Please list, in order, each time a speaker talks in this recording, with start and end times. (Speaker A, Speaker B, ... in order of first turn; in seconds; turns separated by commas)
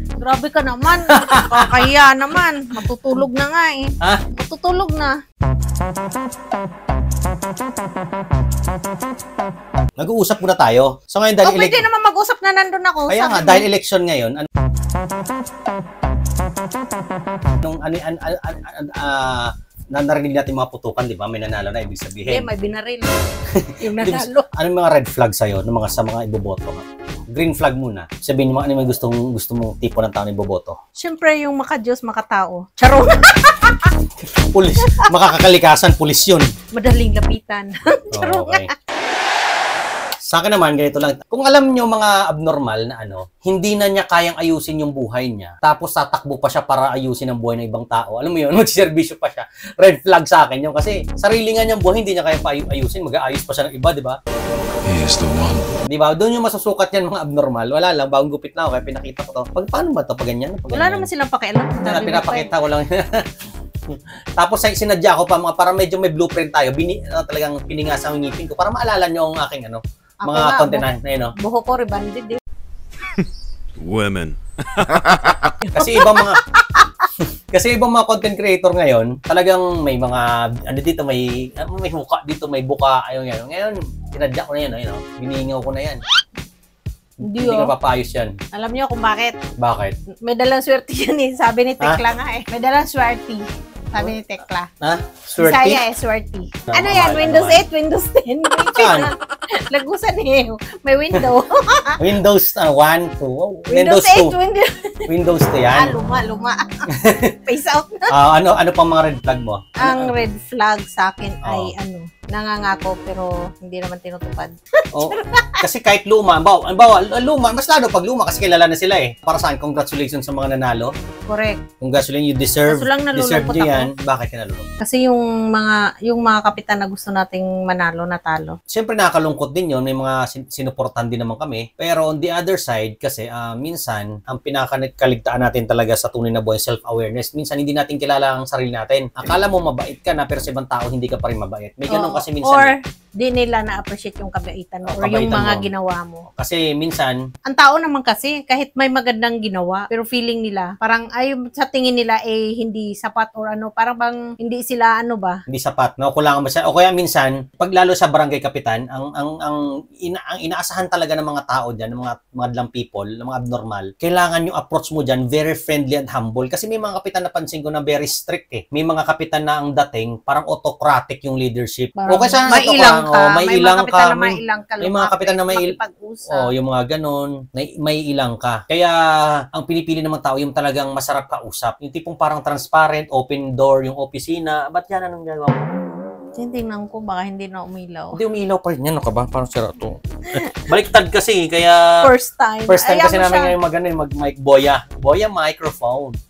Speaker A: 0.2-5.2, Speaker B: 0.9-1.9, Speaker B: 10.0-11.8, Speaker A: 11.4-13.7, Speaker B: 13.1-14.5, Speaker B: 17.5-22.5, Speaker A: 22.3-23.1, Speaker B: 23.5-30.8, Speaker A: 23.9-24.5, Speaker A: 31.0-33.9, Speaker B: 34.3-36.5, Speaker A: 36.7-38.7, Speaker B: 38.1-38.7, Speaker B: 40.3-54.2, Speaker C: 54.9-55.7, Speaker B: 55.9-61.1, Speaker A: 60.7-62.5, Speaker B: 61.8-63.3, Speaker B: 63.9-71.3, Speaker A: 70.3-70.8, Speaker A: 71.4-72.4, Speaker C: 73.8-75.5, Speaker B: 75.8-76.4, Speaker B: 77.2-86.0, Speaker B: 87.2-88.3, Speaker A: 87.3-87.7, Speaker A: 88.5-89.4, Speaker B: 89.6-90.0, Speaker A: 90.2-94.7, Speaker B: 94.8-95.8, Speaker A: 95.4-102.0, Speaker B: 96.7-97.7, Speaker B: 98.6-99.1, Speaker B: 102.0-104.3, Speaker A: 103.8-105.1, Speaker B: 105.1-105.9, Speaker A: 105.8-106.7, Speaker B: 106.9-107.3, Speaker A: 107.5-108.1, Speaker B: 108.1-110.1, Speaker A: 109.8-115.6, Speaker B: 111.4-111.7, Speaker B: 114.9-120.9, Speaker A: 121.3-121.6, Speaker B: 121.8-124.7, Speaker A: 122.7-123.9, Speaker A: 124.8-128.6, Speaker B: 128.7-142.7, Speaker A: 141.9-146.2, Speaker B: 144.9-145.7, Speaker B: 146.3-147.2, Speaker A: 147.5-155.4, Speaker B: 155.5-175.8, Speaker A: 172.0-176.5, Speaker B: 176.3-185.6, Speaker A: 186.4-188.2, Speaker B: 188.1-192.1, Speaker A: 192.0-193.5, Speaker B: 192.7-196.2